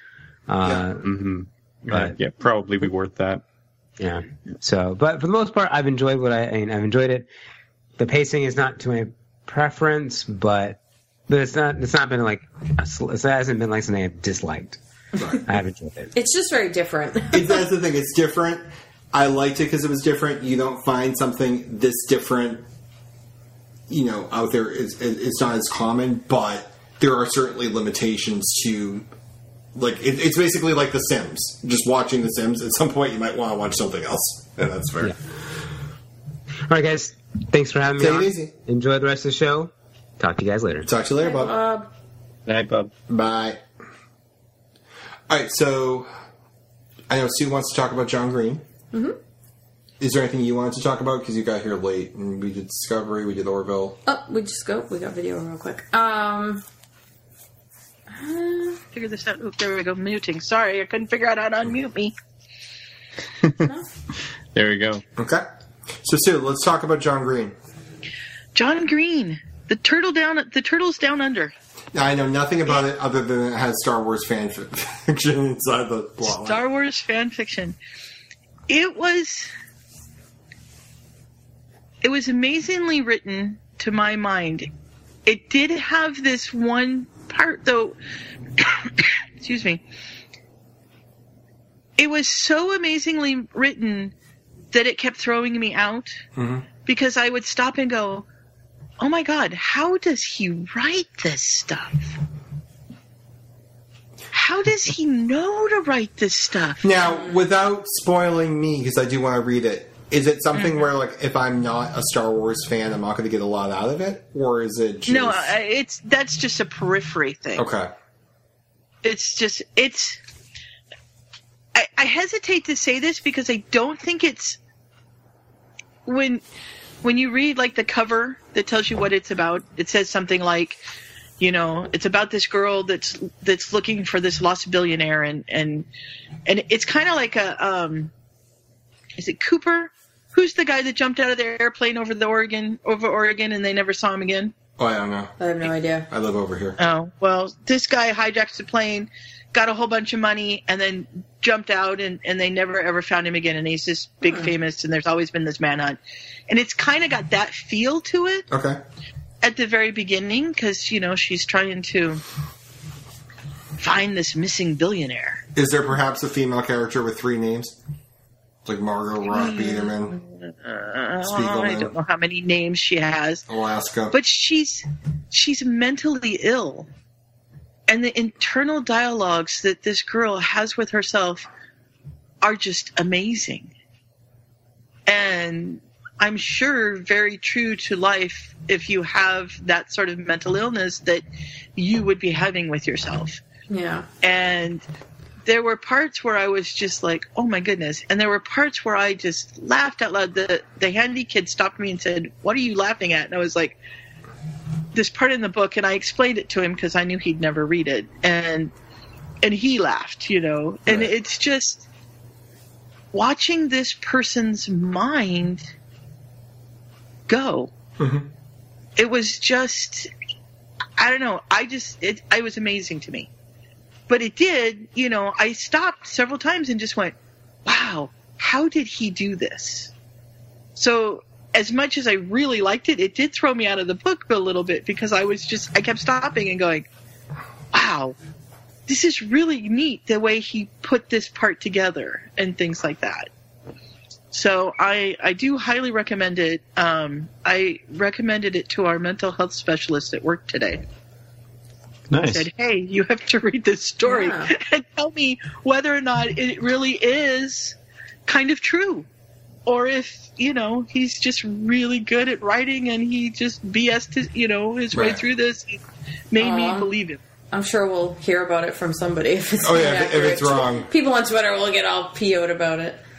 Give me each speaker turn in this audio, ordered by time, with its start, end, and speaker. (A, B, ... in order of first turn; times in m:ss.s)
0:00.5-0:01.0 A
0:00.6-0:00.9 B
0:01.0-0:03.4 C
0:01.9-0:02.1 A
0:04.0-0:07.3 A
0:08.0-0:14.8 A
0:15.4-0:16.1 A
0:16.1-0:17.6 D
0:17.3-0:22.6 B
0:23.9-0:29.1 B
0:29.7-0:35.2 B
0:36.7-0:40.9 A
0:38.0-0:38.5 B
0:40.8-0:41.6 B
0:41.2-0:41.9 D
0:42.4-0:42.9 C
0:43.1-0:43.6 B
0:45.3-0:46.1 B
0:47.1-0:48.6 B
0:50.0-0:54.0 B
0:54.0-0:56.6 D
0:58.1-0:58.8 D
0:58.9-1:02.1 E
1:03.4-1:03.7 C
1:04.5-1:05.0 C
1:05.2-1:05.5 B
1:06.0-1:07.6 B
1:08.5-1:11.5 E
1:11.9-1:16.6 B
1:16.2-1:17.8 E
1:18.7-1:19.5 E
1:22.0-1:24.7 E
1:25.2-1:28.0 E
1:28.6-1:29.8 E
1:32.0-1:34.1 E
1:34.7-1:36.2 E
1:36.3-1:36.7 B
1:36.8-1:38.2 E
1:39.0-1:42.1 E
1:44.3-1:46.9 E
1:46.8-1:55.6 B
1:50.5-1:50.8 E
1:55.1-1:57.6 E
1:57.6-1:57.9 B
1:59.0-2:00.2 E
2:01.7-2:04.6 E
2:06.0-2:06.4 E
2:07.0-2:10.8 E
2:11.4-2:15.9 E
2:16.4-2:18.1 E
2:19.2-2:24.5 E
2:24.8-2:26.8 B
2:25.4-2:26.1 D
2:26.8-2:38.5 E
2:34.2-2:34.5 D
2:38.5-2:38.8 B
2:39.4-2:42.2 E
2:43.8-2:45.4 E
2:45.5-2:47.8 B
2:48.6-2:50.2 B
2:49.2-2:53.4 E
2:51.2-2:51.9 B
2:53.5-2:54.2 B
2:54.1-2:56.9 E
2:57.9-3:01.5 E
3:02.4-3:03.7 E
3:05.1-3:11.2 E
3:11.8-3:13.4 E
3:13.7-3:14.1 D
3:14.2-3:14.8 E
3:15.4-3:23.8 E
3:24.9-3:28.7 E
3:29.4-3:31.8 E
3:30.9-3:31.1 B
3:33.1-3:35.7 E
3:37.3-3:37.7 E
3:38.0-3:38.3 B
3:39.0-3:40.1 E
3:41.0-3:43.3 E
3:44.1-3:47.1 E
3:47.6-3:49.9 E
3:50.8-3:56.9 E
3:57.7-3:58.2 E
3:58.9-4:03.3 E
4:04.3-4:10.8 E
4:12.1-4:12.5 C
4:12.2-4:19.1 E
4:14.0-4:14.5 D
4:19.6-4:27.2 E
4:24.9-4:25.2 B
4:26.4-4:26.9 D
4:27.5-4:33.0 D
4:29.6-4:30.9 B